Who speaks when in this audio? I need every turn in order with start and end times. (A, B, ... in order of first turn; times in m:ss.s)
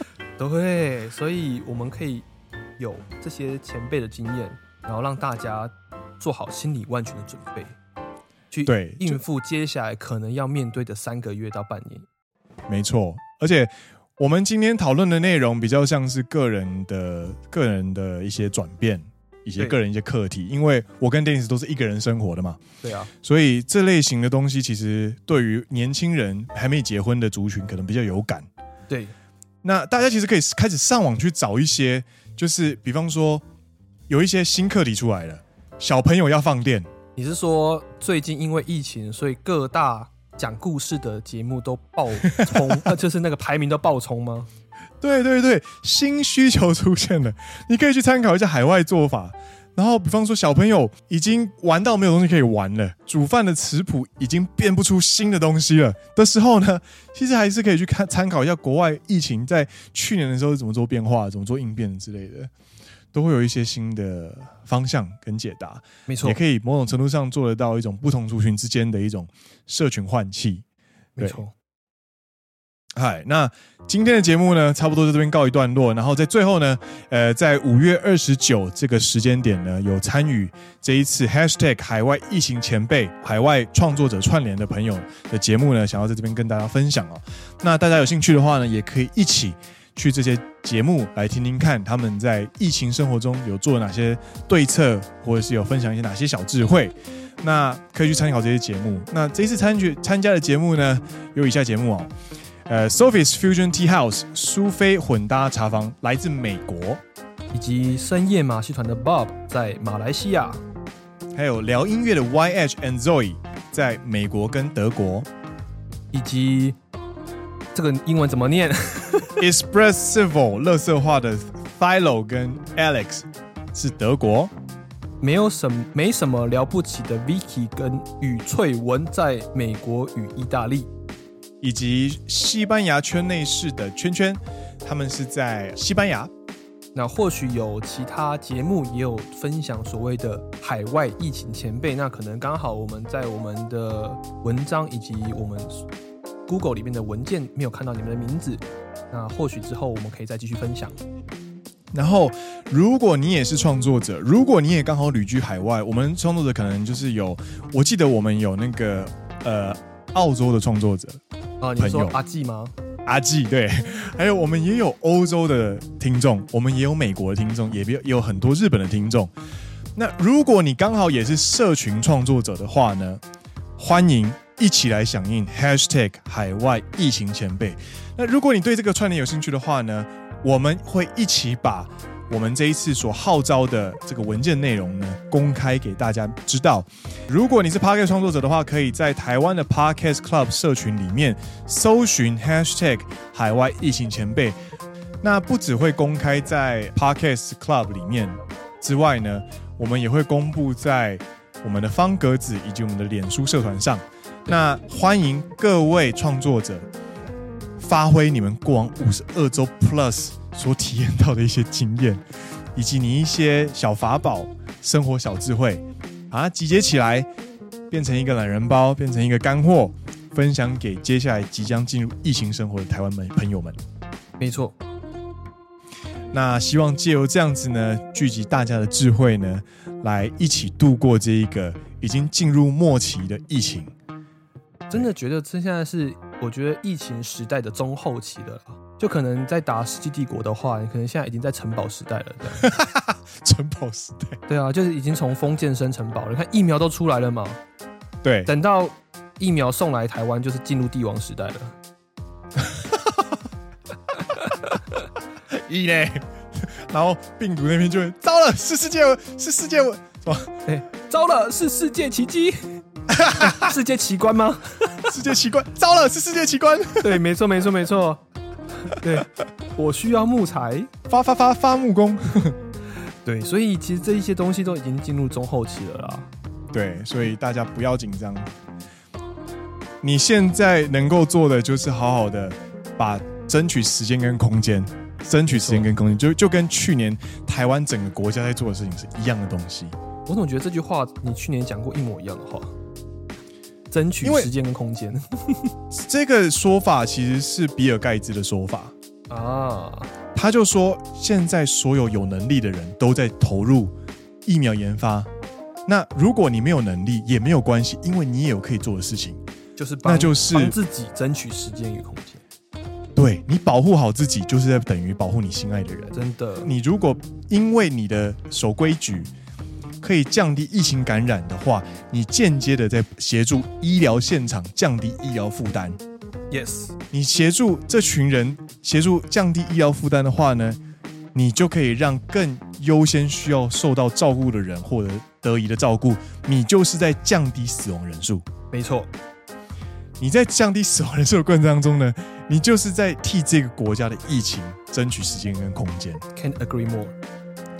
0:00.4-0:02.3 A
0:02.8-0:07.7 A
0:08.5-0:12.1 A
0:08.6-0:09.2 B
0:12.7-0:22.6 B
0:22.8-0:23.1 A
0:23.2-0:28.5 B
0:28.9-0:29.1 A
0:29.6-0:33.4 B
0:34.1-0:36.9 B
0:37.2-0:44.5 A
0:42.2-0:42.6 B
0:45.0-1:02.5 B
1:03.1-1:10.6 B
1:06.1-1:06.4 A
1:11.2-1:11.5 A
1:13.0-1:42.1 B
1:42.7-1:47.0 B
1:47.5-1:50.6 A
1:51.3-1:55.3 B
1:56.1-1:56.8 A
1:57.7-1:59.4 A
1:59.4-2:04.5 B
2:05.2-2:10.9 A
2:11.6-2:16.3 B
2:16.9-2:25.9 A
2:26.5-2:31.0 A
2:31.9-2:41.2 B
2:41.6-2:42.7 A
2:41.8-2:42.2 B
2:43.0-2:49.3 B
2:50.0-2:53.2 B
2:53.8-3:14.6 B
3:15.2-3:26.8 B
3:27.8-3:32.2 B
3:32.7-3:37.3 B
3:37.9-3:43.8 B
3:44.4-3:44.8 A
3:46.3-3:53.9 B
3:54.9-4:02.7 A
4:02.5-4:04.4 B
4:04.5-4:07.6 A
4:08.2-4:08.5 B
4:08.4-4:11.8 A
4:12.6-4:13.2 B
4:15.5-4:20.6 B
4:20.6-4:22.8 A
4:23.1-4:23.7 B
4:23.4-4:25.1 A
4:25.0-4:27.2 B
4:27.0-4:28.2 A
4:28.8-4:30.9 A
4:31.1-4:32.6 B
4:33.2-4:36.3 A
4:36.7-4:38.5 B
4:40.0-4:49.9 B
4:45.4-4:45.9 A
4:50.3-4:52.7 A
4:53.9-4:55.7 A
4:54.2-4:54.5 B
4:55.9-4:58.9 B
4:59.3-5:00.1 A
5:00.3-5:03.9 B
5:04.4-5:05.3 B
5:05.9-5:09.4 B
5:09.8-5:12.4 A
5:10.0-5:10.8 B
5:13.2-5:19.3 B
5:16.1-5:16.7 A
5:20.0-5:26.0 B
5:26.5-5:27.0 A
5:27.1-5:30.8 B
5:31.3-5:38.4 B
5:38.7-5:39.1 A
5:40.2-5:46.2 B
5:46.3-5:47.2 A